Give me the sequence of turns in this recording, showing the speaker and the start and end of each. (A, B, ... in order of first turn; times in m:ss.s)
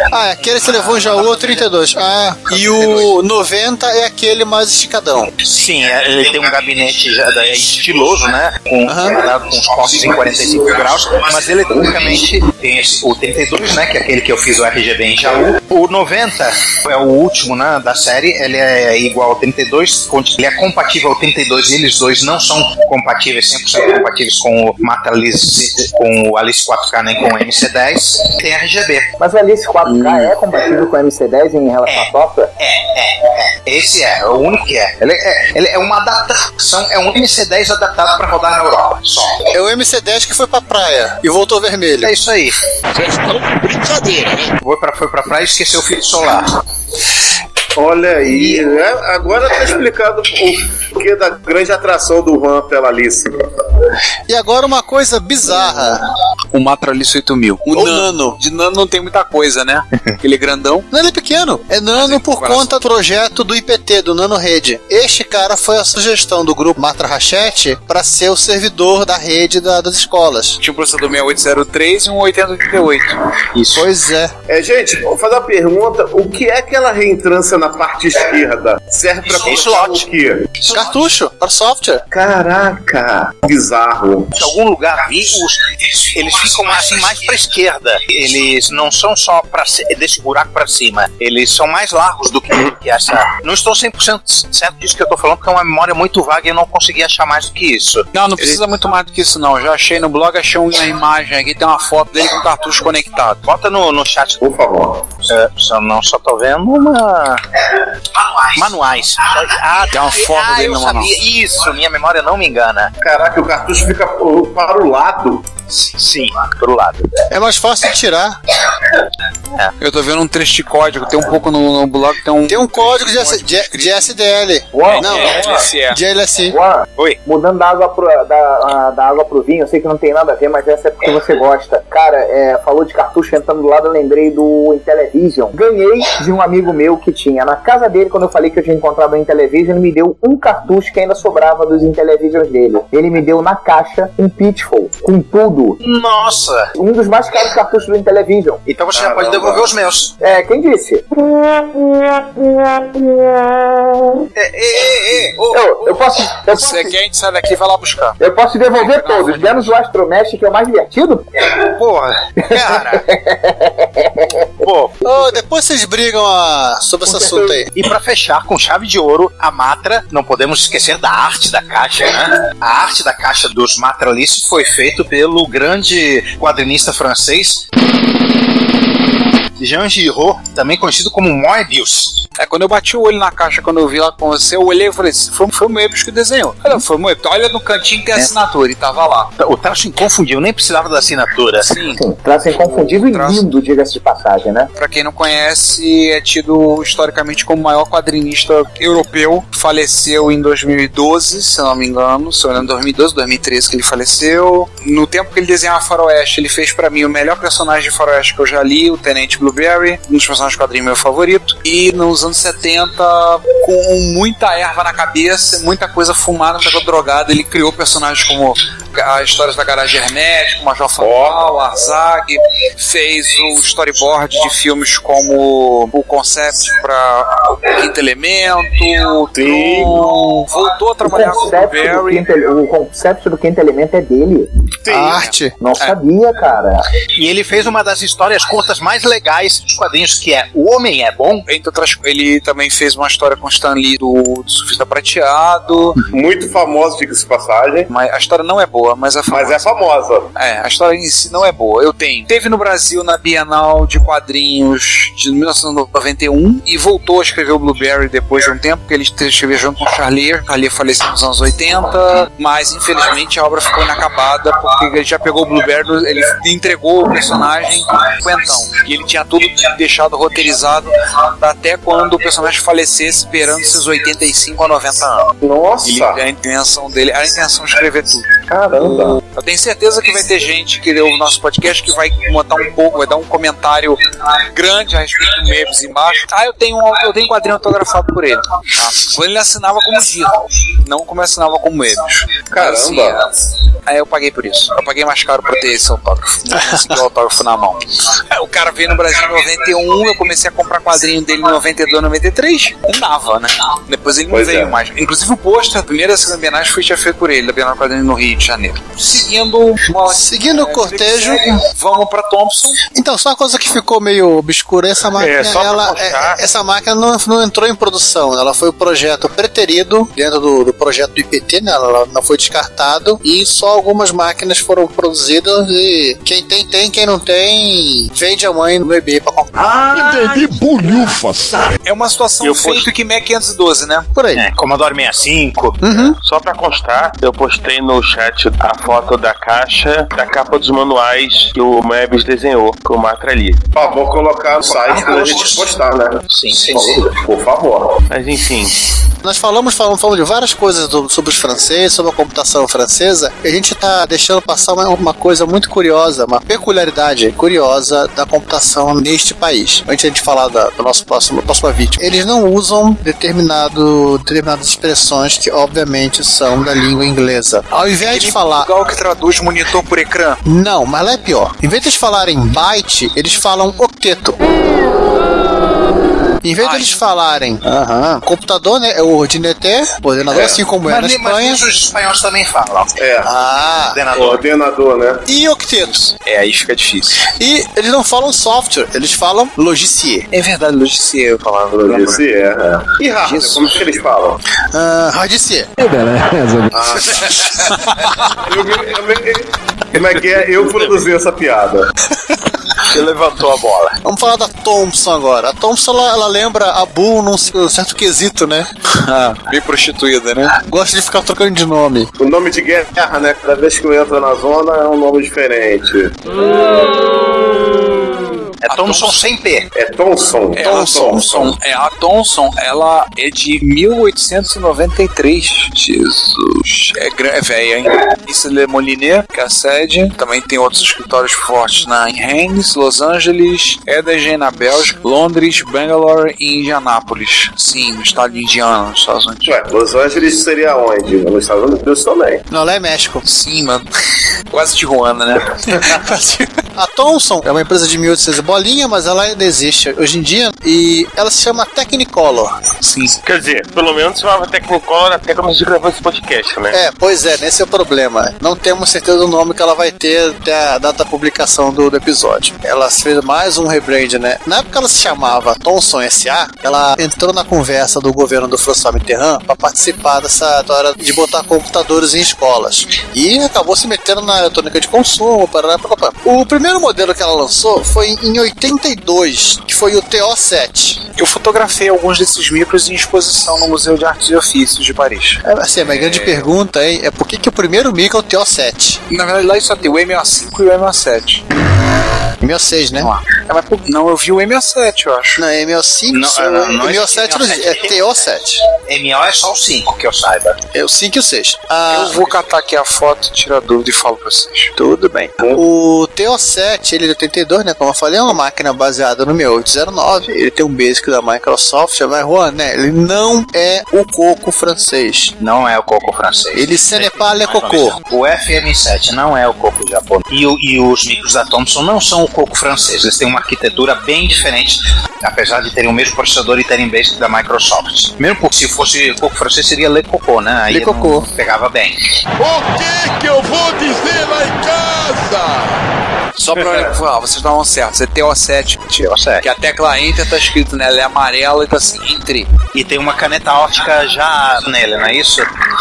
0:00.1-0:05.3 A
0:01.0-0:01.3 B
0:02.5-0:03.1 B
0:05.4-0:29.1 B
0:08.8-0:09.2 A
0:29.2-0:32.5 C
0:31.8-0:39.4 B
0:39.5-0:42.1 A
0:42.0-0:42.6 B
0:42.9-0:44.5 D
0:44.6-0:46.5 B
0:47.8-0:53.3 E
0:54.3-0:56.0 A
0:56.5-1:00.8 F
0:57.7-0:58.4 A
1:00.9-1:10.6 A
1:01.9-1:02.7 F
1:10.6-1:13.2 F
1:13.6-1:13.8 B
1:13.7-1:14.3 A
1:14.5-1:20.5 E
1:19.4-1:20.0 B
1:20.7-1:22.0 A
1:22.1-1:24.3 E
1:24.4-1:38.1 B
1:38.1-1:43.4 F
1:43.4-1:44.4 B
1:44.4-1:45.1 E
1:45.3-1:47.4 B
1:48.2-1:52.9 B
1:49.9-1:51.1 F
1:53.0-1:55.4 E
1:55.8-1:57.1 B
1:57.3-1:58.4 A
1:59.8-2:04.1 F
2:02.5-2:06.6 A
2:04.7-2:05.6 C
2:04.8-2:06.0 F
2:06.5-2:25.8 C
2:25.8-2:26.7 B
2:26.8-2:28.6 C
2:28.7-2:30.1 B
2:28.9-2:29.7 E
2:30.2-2:31.0 C
2:34.4-2:35.7 B
2:35.5-2:36.9 C
2:36.5-2:38.2 F
2:38.2-2:41.3 C
2:38.8-2:39.7 F
2:41.5-2:43.1 B
2:42.5-2:44.4 C
2:44.6-2:45.0 B
2:45.0-2:47.7 A
2:47.0-2:47.6 C
2:47.7-2:57.6 B
2:59.6-3:02.2 B
3:02.4-3:09.3 F
3:09.4-3:11.7 B
3:11.6-3:12.0 F
3:12.0-3:14.7 C
3:12.5-3:13.4 F
3:14.8-3:52.2 F
3:41.0-3:41.4 E
3:49.3-3:50.0 E
3:51.0-3:54.5 C
3:54.8-3:55.2 E
3:54.9-3:55.5 A
3:55.2-3:56.0 F
3:55.6-3:56.8 C
3:57.2-4:01.4 B
4:01.5-4:06.0 F
4:06.1-4:07.9 E
4:07.9-4:09.6 F
4:09.3-4:10.3 E
4:10.3-4:35.3 F
4:35.4-4:36.2 E
4:35.8-4:44.0 F
4:38.5-4:39.2 E
4:44.5-4:53.3 F
4:52.5-4:53.2 E
4:53.8-5:12.8 F
5:04.3-5:04.8 E
5:10.1-5:11.6 A
5:12.9-5:29.6 A
5:15.1-5:16.4 G
5:29.6-5:31.6 D
5:31.8-5:34.1 F
5:32.4-5:32.9 G
5:34.1-5:34.4 A
5:34.3-5:36.1 B
5:35.8-5:36.2 A
5:36.2-5:43.6 G
5:43.7-5:48.0 E
5:44.6-5:45.6 B
5:46.3-5:47.2 B
5:48.1-5:48.7 G
5:49.2-6:08.7 A
6:08.0-6:10.4 F
6:10.4-6:14.4 A
6:16.4-6:21.6 A
6:16.6-6:16.9 F
6:20.3-6:20.6 E
6:20.8-6:22.9 B
6:23.0-6:23.3 E
6:23.2-6:24.0 A
6:23.9-6:24.4 B
6:24.1-6:25.2 E
6:25.3-6:26.0 A
6:25.8-6:27.3 F
6:27.4-6:30.3 A
6:30.3-6:32.2 F
6:31.7-6:34.4 E
6:33.2-6:33.7 F
6:34.7-6:35.7 A
6:36.7-6:37.6 E
6:37.8-6:38.3 F
6:38.3-6:41.9 E
6:42.9-6:43.9 B
6:44.0-6:48.7 A
6:49.0-6:50.5 F
6:50.6-6:52.1 A
6:52.2-6:56.1 E
6:58.6-6:59.7 B
6:58.7-6:59.2 F
6:59.7-7:01.5 E
7:00.5-7:19.5 F
7:00.6-7:01.2 A
7:19.4-7:22.4 E
7:22.5-7:23.2 A
7:23.2-7:23.9 F
7:24.5-7:25.8 F
7:25.7-7:32.6 A
7:32.8-7:33.2 F
7:33.2-7:36.8 G
7:36.7-8:01.0 A
8:01.2-8:06.5 F
8:05.4-8:09.0 A
8:09.1-8:11.4 F
8:12.4-8:13.1 A
8:13.0-8:15.4 F
8:15.4-8:18.6 A
8:16.1-8:20.6 B
8:20.7-8:22.4 A
8:21.9-8:24.7 F
8:24.8-8:35.3 A
8:35.4-8:52.0 B
8:36.5-8:38.0 A
8:50.7-8:51.3 A
8:52.4-8:55.8 D
8:56.4-9:02.5 F
8:56.5-8:56.9 E
8:59.0-8:59.4 B
9:02.7-9:05.5 B